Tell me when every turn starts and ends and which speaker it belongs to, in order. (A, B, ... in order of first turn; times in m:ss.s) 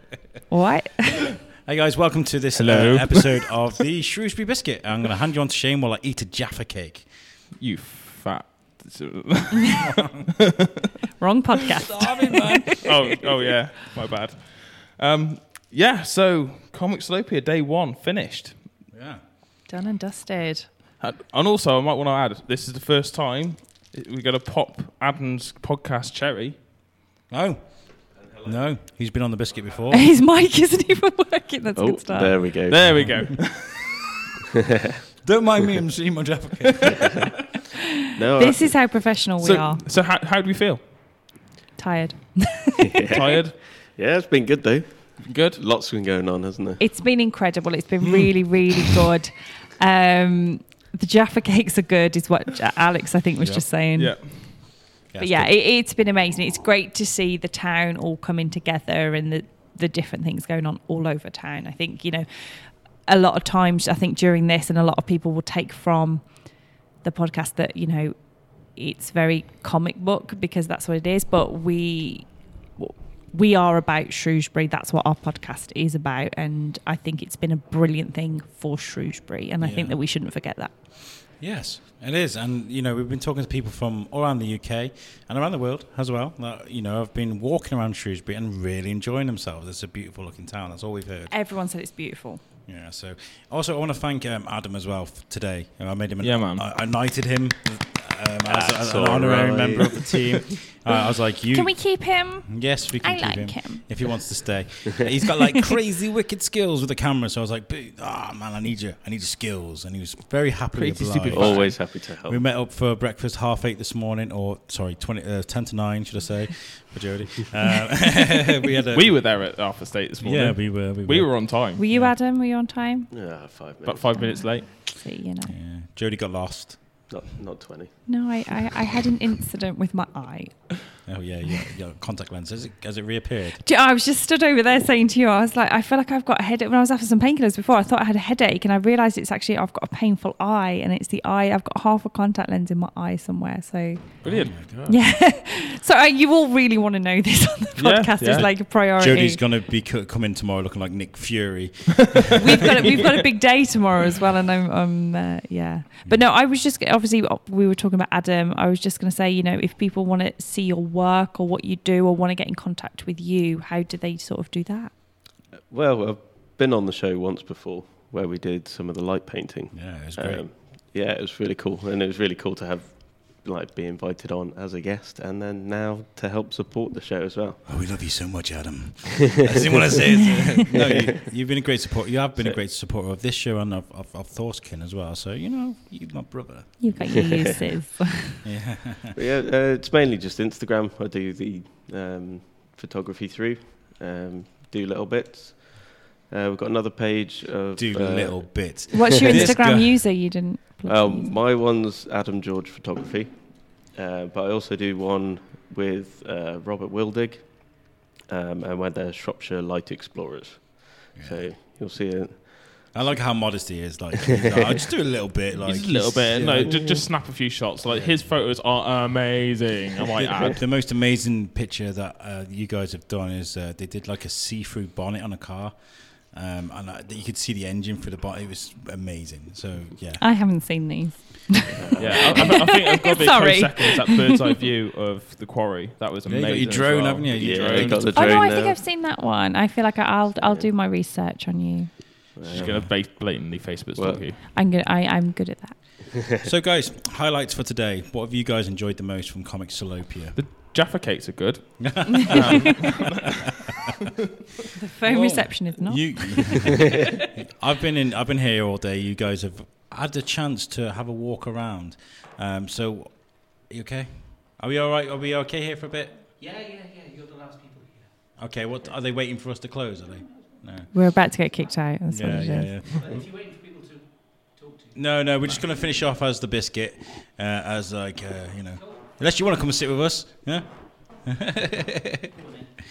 0:00.5-0:01.3 A
0:01.6-0:07.1 B
0:02.6-0:03.5 C
0:07.6-0:10.9 C
0:09.8-0:10.3 B
0:11.2-0:12.8 A
0:11.8-0:13.2 B
0:12.8-0:18.5 C
0:18.9-0:19.2 B
0:19.7-0:20.7 A
0:21.0-0:26.6 C
0:27.3-0:30.1 B
0:28.1-0:28.5 D
0:29.9-0:32.4 A
0:31.8-0:33.0 D
0:32.7-0:33.9 C
0:32.9-0:33.5 B
0:35.2-0:37.3 B
0:36.9-0:37.3 D
0:38.1-0:38.9 D
0:38.3-0:39.8 A
0:39.4-0:40.8 C
0:41.8-0:43.2 A
0:42.8-0:46.8 D
0:43.1-0:43.6 C
0:45.2-0:45.6 C
0:46.8-1:06.4 A
0:53.9-0:54.7 C
0:55.1-0:55.5 B
1:07.0-1:20.7 A
1:19.6-1:20.0 B
1:21.4-1:31.3 B
1:31.3-1:32.4 A
1:32.6-1:59.4 B
1:36.2-1:36.6 C
1:38.4-1:40.4 D
1:41.5-1:43.8 A
1:50.7-1:51.8 C
1:51.3-1:52.4 D
1:58.9-2:01.8 C
2:00.2-2:02.1 B
2:01.7-2:03.1 A
2:03.1-2:04.1 D
2:03.8-2:04.7 C
2:04.1-2:05.5 A
2:05.5-2:07.1 B
2:07.1-2:08.1 D
2:08.0-2:10.9 A
2:11.0-2:13.6 B
2:13.6-2:29.4 A
2:24.2-2:24.6 B
2:24.2-2:25.0 C
2:27.8-2:28.4 C
2:28.2-2:32.4 B
2:32.3-2:44.9 A
2:32.9-2:33.1 B
2:45.7-2:57.8 D
2:49.7-2:50.5 B
2:57.6-3:07.2 B
3:00.7-3:01.3 D
3:06.8-3:08.4 A
3:07.0-3:07.7 D
3:08.4-3:09.1 B
3:09.1-3:19.5 D
3:17.8-3:20.2 B
3:18.9-3:21.3 A
3:20.8-3:33.2 D
3:31.2-3:31.5 B
3:32.9-3:37.0 B
3:34.2-3:34.8 D
3:35.6-3:40.6 C
3:40.2-3:45.8 B
3:46.3-3:50.2 B
3:50.2-3:54.5 A
3:51.7-3:52.4 D
3:52.0-3:58.1 C
3:56.2-3:58.4 B
3:57.4-3:58.8 D
3:58.1-4:01.9 A
4:00.3-4:00.7 D
4:02.4-4:02.9 D
4:02.5-4:04.4 C
4:02.5-4:02.9 B
4:03.9-4:04.2 D
4:04.5-4:05.8 A
4:06.4-4:10.4 B
4:10.4-4:13.5 C
4:11.8-4:12.8 B
4:12.1-4:12.7 A
4:14.7-4:16.9 A
4:15.0-4:26.2 B
4:15.9-4:16.8 C
4:26.4-4:28.0 E
4:28.4-4:30.9 B
4:30.9-4:32.7 A
4:32.1-4:33.1 B
4:33.0-4:34.9 E
4:34.9-4:42.3 B